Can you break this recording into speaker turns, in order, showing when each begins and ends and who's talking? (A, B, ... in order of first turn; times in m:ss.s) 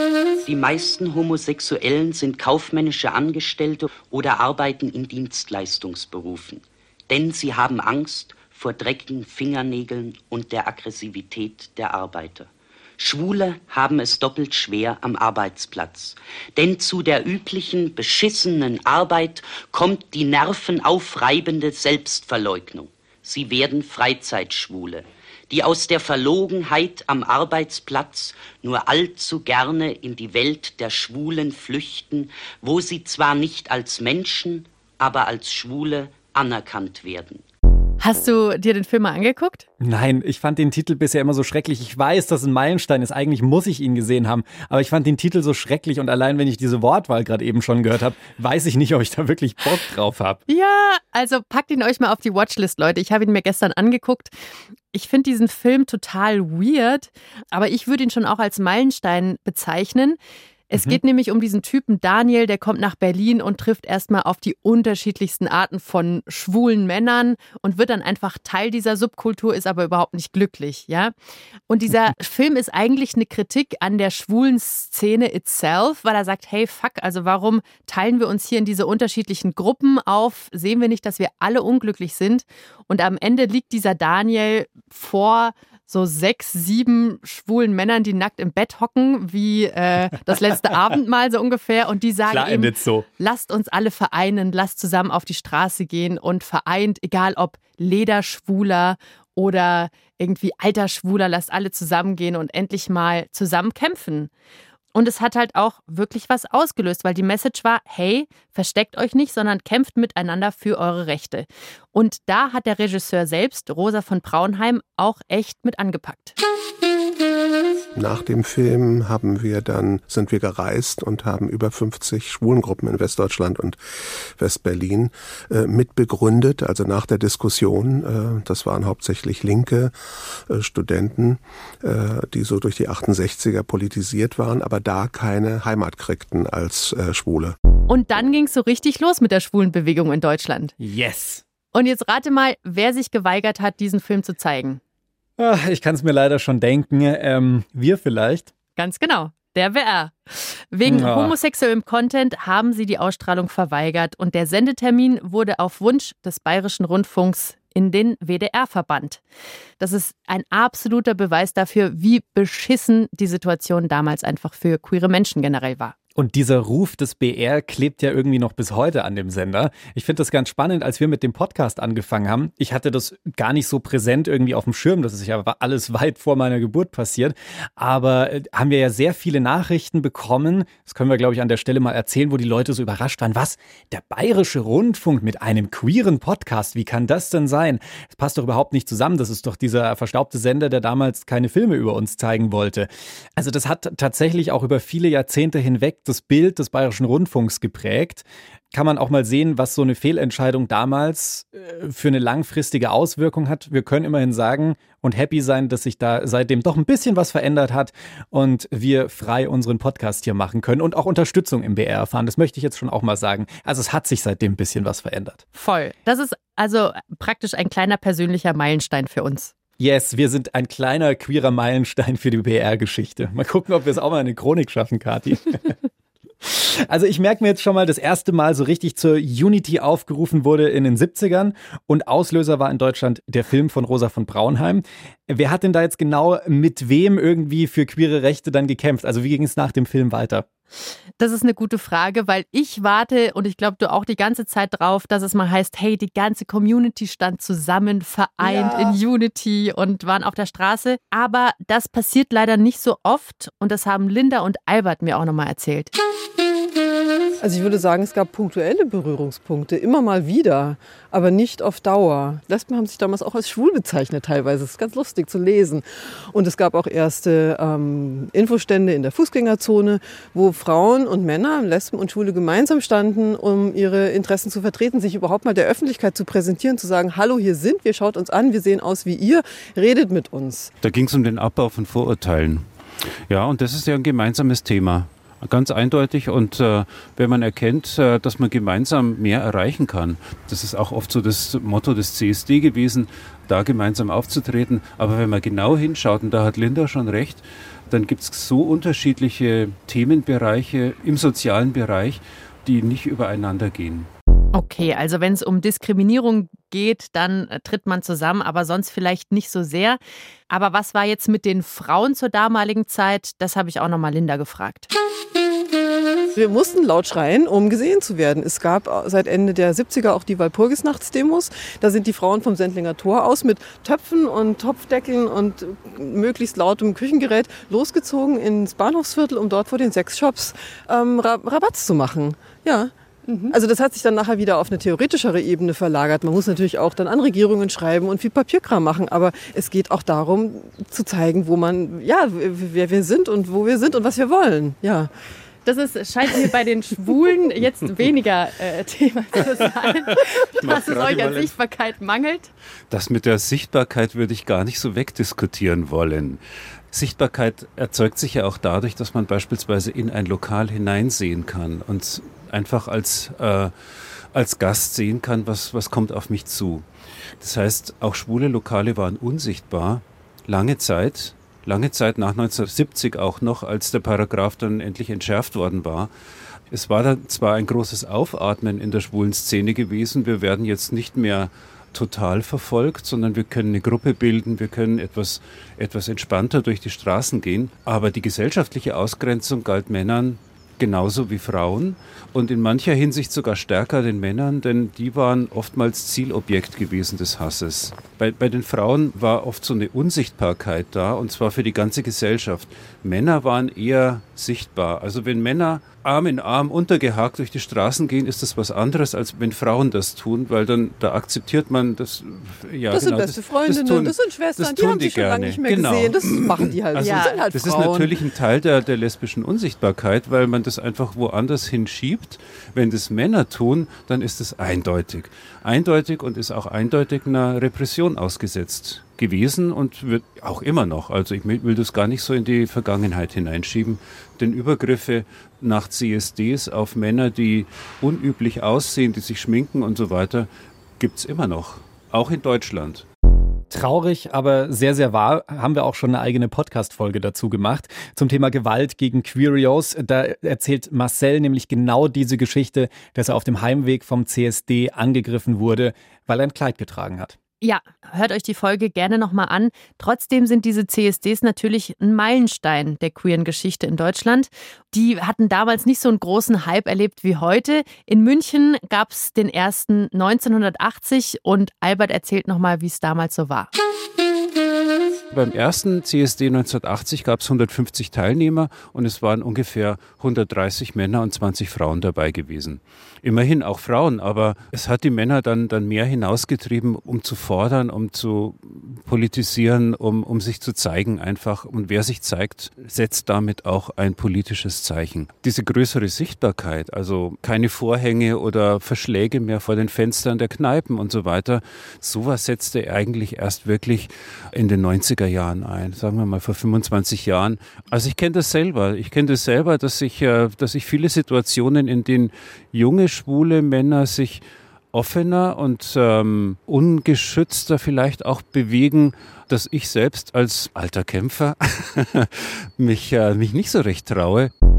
0:00.4-0:37.4 A
0:38.0-0:39.7 B
0:39.8-0:50.4 C
0:50.5-0:54.3 B
0:54.9-1:00.2 B
1:00.7-1:11.1 B
1:00.7-1:01.0 C
1:11.7-1:44.3 B
1:32.3-1:33.1 C
1:44.9-1:56.4 B
1:58.0-2:03.8 D
2:04.4-2:10.0 D
2:10.5-2:17.6 D
2:17.9-2:20.8 B
2:20.8-2:21.4 C
2:21.7-2:24.8 B
2:25.4-2:28.5 C
2:28.8-2:39.2 B
2:30.8-2:31.4 C
2:39.8-2:46.0 B
2:46.2-3:35.4 C
3:35.6-3:39.5 B
3:39.8-3:45.8 C
3:46.4-4:00.5 C
4:01.2-4:15.9 B
4:08.4-4:09.0 E
4:17.4-4:40.7 E
4:40.8-5:04.1 F
5:04.5-5:10.0 B
5:10.5-5:14.9 B
5:16.4-5:32.9 E
5:33.3-5:33.6 B
5:33.5-5:45.1 E
5:45.6-5:52.5 B
5:50.4-5:51.6 F
5:52.9-6:06.9 F
6:07.4-6:16.1 F
6:16.7-7:23.1 F
6:52.9-6:58.2 E
6:57.0-6:57.4 B
7:23.7-7:37.4 C
7:37.6-7:53.7 B
7:55.3-8:44.5 F